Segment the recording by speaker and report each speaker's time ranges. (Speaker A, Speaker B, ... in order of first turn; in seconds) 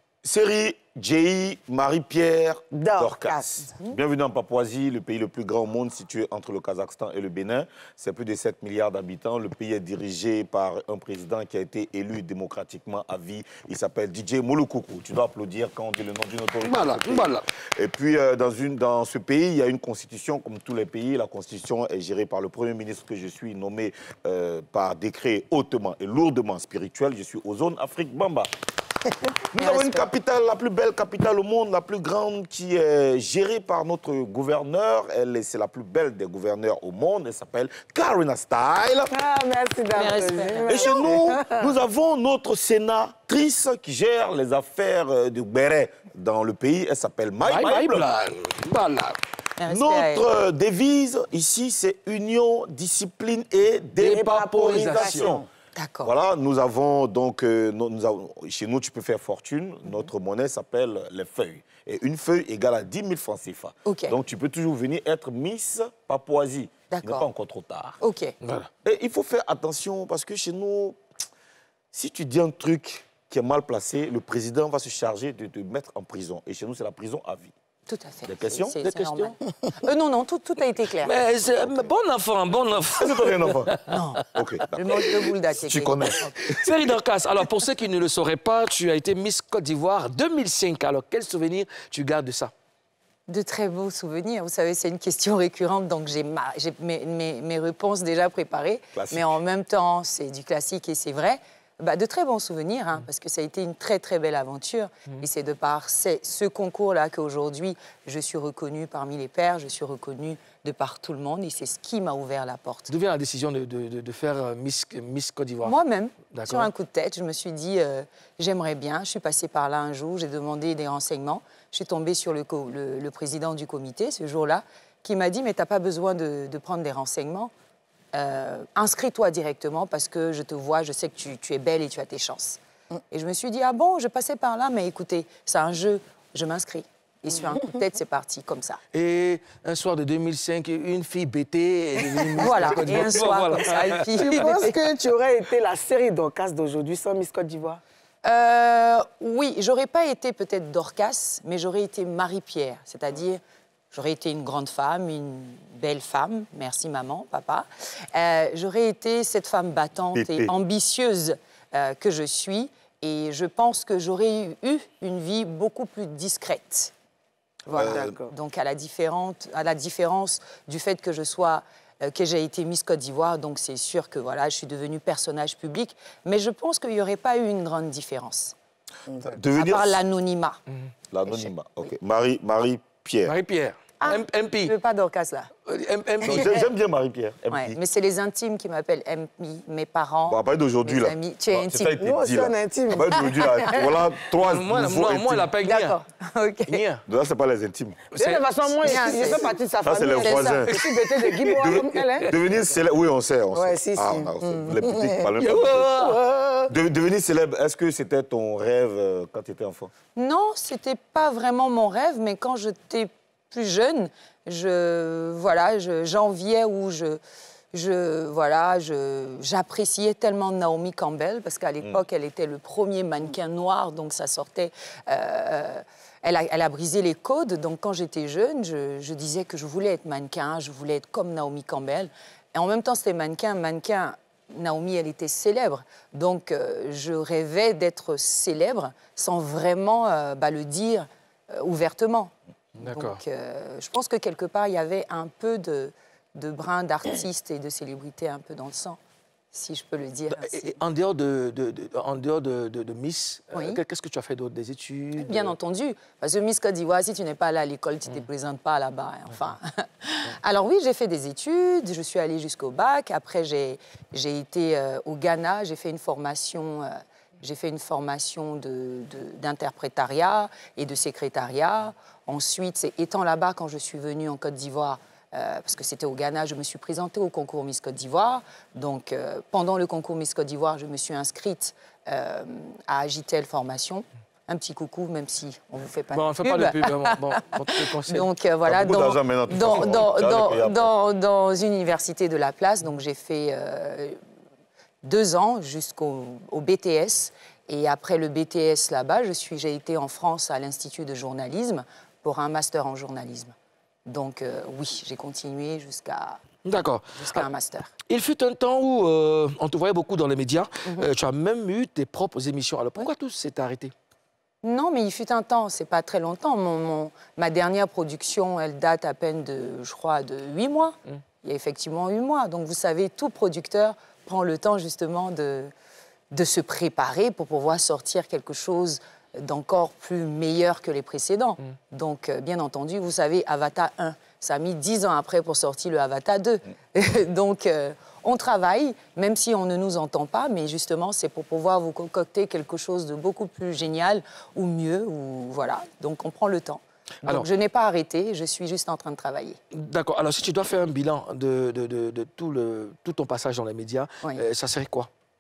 Speaker A: 0.2-28.5, 29.5-39.1, 40.7-48.0, 49.7-55.4, 56.0-68.0, 68.8-71.0, 71.9-77.5, 78.3-78.7, 83.0-86.3, 98.9-99.4, 160.1-160.5, 167.7-168.2, 179.3-180.0, 181.1-183.3, 186.2-187.8, 190.3-195.5, 197.1-198.0, 199.8-200.7, 201.5-205.9, 206.7-209.9, 288.6-290.9
Speaker B: 2.7-3.5, 39.1-41.7, 54.0-55.5, 144.2-147.8, 167.7-168.3, 179.1-179.3, 192.0-193.3, 198.2-202.3, 203.5-206.7
Speaker C: 16.6-17.4, 47.4-49.2, 54.0-55.4, 78.8-79.3, 81.0-83.9, 86.4-92.5, 112.9-115.8, 116.3-116.7, 138.9-144.7, 183.2-184.7, 185.7-186.6, 194.4-196.0, 196.7-197.0, 198.1-199.2, 201.0-201.4, 205.4-206.2, 242.8-243.2, 250.3-255.5, 286.1-288.3, 306.6-307.5, 308.1-313.9, 349.7-355.1
Speaker D: 29.6-30.1, 39.9-41.1, 49.6-50.2, 55.8-56.1, 63.9-64.1, 66.9-67.3, 68.0-68.3, 77.9-81.1, 83.8-86.5, 93.3-112.9, 115.6-127.5, 128.1-132.6, 133.1-138.8, 142.4-144.7, 148.2-153.4, 153.9-166.9, 167.7-178.5, 179.5-180.6, 184.0-185.5, 187.5-192.0, 195.6-196.8, 198.8-199.6, 200.2-200.7, 210.1-217.2, 217.7-242.3, 242.8-249.0, 249.5-250.7, 253.5-253.8, 255.2-294.2, 295.0-303.5, 304.1-306.4, 307.1-307.9, 314.6-325.7, 326.3-349.6